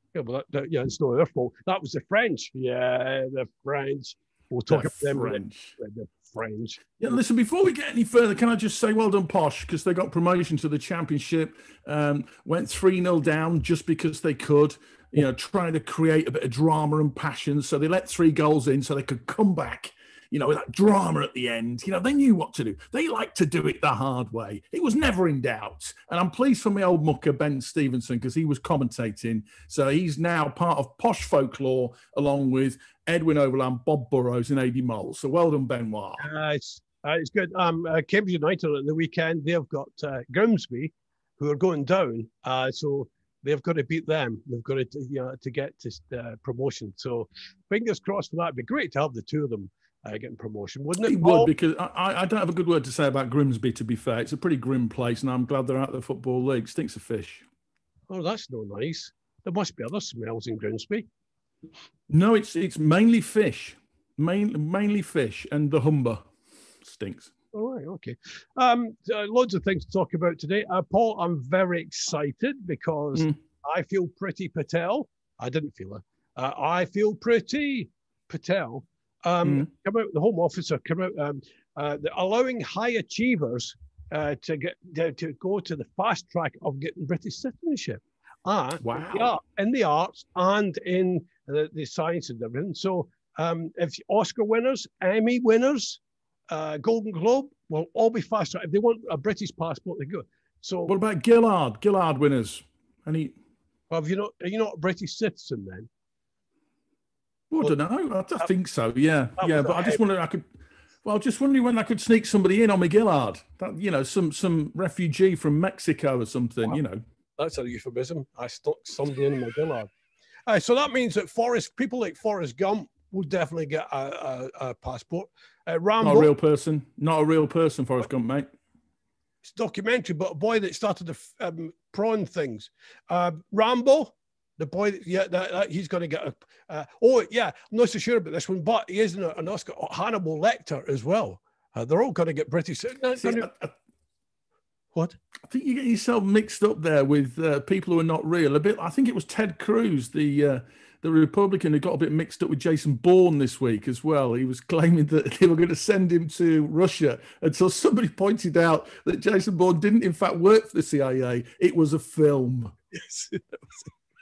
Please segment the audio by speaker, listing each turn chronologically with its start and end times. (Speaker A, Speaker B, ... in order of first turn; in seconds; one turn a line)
Speaker A: 0.1-7.0
Speaker B: 4.7-5.8
Speaker B: 7.0-36.3
Speaker A: 36.2-51.5
Speaker B: 51.0-57.5
Speaker A: 58.1-61.1
Speaker B: 62.1-66.3
Speaker B: 66.8-67.3
Speaker A: 67.5-100.9
Speaker B: 79.4-79.7
Speaker B: 88.8-89.3
Speaker B: 100.9-103.4
Speaker A: 103.9-105.9
Speaker B: 107.5-110.5
Speaker A: 109.4-110.0
Speaker B: 111.0-117.0
Speaker A: 117.4-119.9
Speaker A: 120.5-126.3
Speaker B: 126.0-128.5
Speaker A: 129.4-143.5
Speaker B: 143.2-143.7
Speaker B: 145.5-162.8
Speaker A: 162.9-163.9